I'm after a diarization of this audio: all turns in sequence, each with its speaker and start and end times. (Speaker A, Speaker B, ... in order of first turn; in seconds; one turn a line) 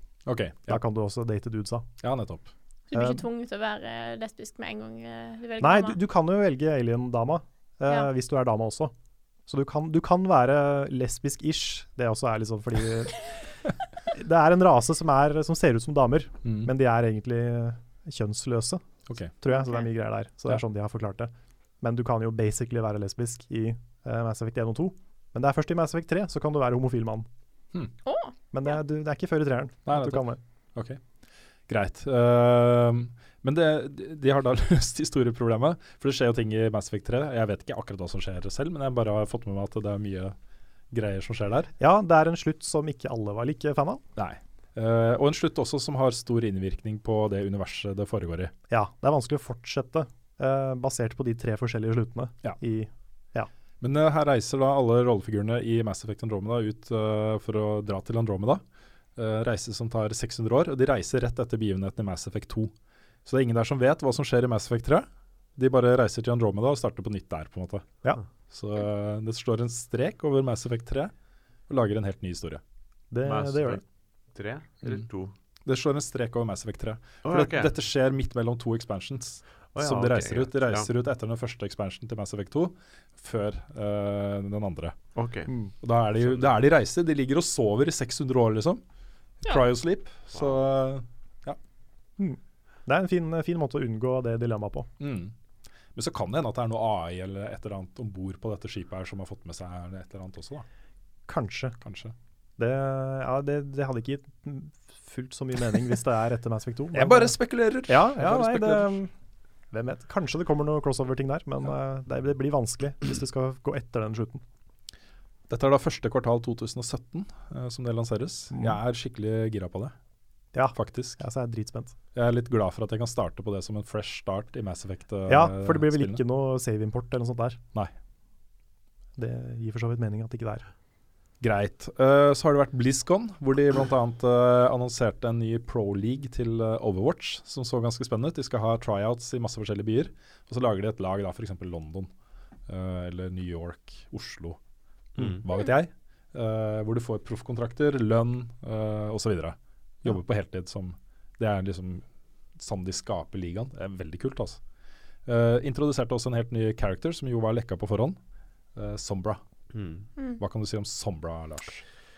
Speaker A: 0.3-0.8
Speaker B: 0.7-1.9
Speaker A: 2.0-2.5
Speaker C: 2.9-6.0
Speaker B: 2.9-3.2
Speaker B: 5.6-8.9
Speaker B: 9.5-13.3
Speaker B: 14.1-18.8
Speaker A: 16.4-16.7
Speaker A: 19.1-19.3
Speaker B: 19.4-27.3
Speaker C: 19.5-19.9
Speaker C: 28.1-28.3
Speaker B: 28.5-30.4
Speaker A: 29.9-30.2
Speaker A: 30.8-31.0
Speaker A: 31.7-40.4
Speaker A: 40.9-41.7
Speaker B: 41.8-44.0
Speaker A: 44.2-48.5
Speaker B: 48.7-53.5
Speaker A: 53.8-58.6
Speaker A: 59.2-62.7
Speaker A: 63.2-67.9
Speaker A: 68.5-71.1
Speaker A: 71.7-72.6
Speaker B: 73.1-73.8
Speaker D: 73.2-73.8
Speaker D: 74.3-75.3
Speaker A: 75.7-85.0
Speaker D: 77.2-77.7
Speaker D: 79.8-80.9
Speaker D: 85.2-85.5
Speaker A: 85.8-88.8
Speaker D: 86.2-86.5
Speaker A: 89.4-91.6
Speaker B: 92.2-94.9
Speaker A: 95.0-95.3
Speaker A: 96.0-100.7
Speaker B: 101.3-101.8
Speaker A: 101.8-102.1
Speaker B: 102.6-109.1
Speaker A: 106.9-109.0
Speaker B: 109.7-114.4
Speaker A: 115.5-119.9
Speaker B: 118.5-118.8
Speaker B: 120.5-122.0
Speaker A: 120.7-121.2
Speaker A: 122.2-126.2
Speaker B: 125.3-127.6
Speaker B: 129.2-130.7
Speaker A: 131.4-142.1
Speaker A: 142.7-144.6
Speaker D: 145.2-145.4
Speaker A: 145.2-154.6
Speaker A: 155.3-158.2
Speaker A: 158.8-159.4
Speaker D: 159.7-160.1
Speaker C: 160.2-160.4
Speaker A: 160.4-161.8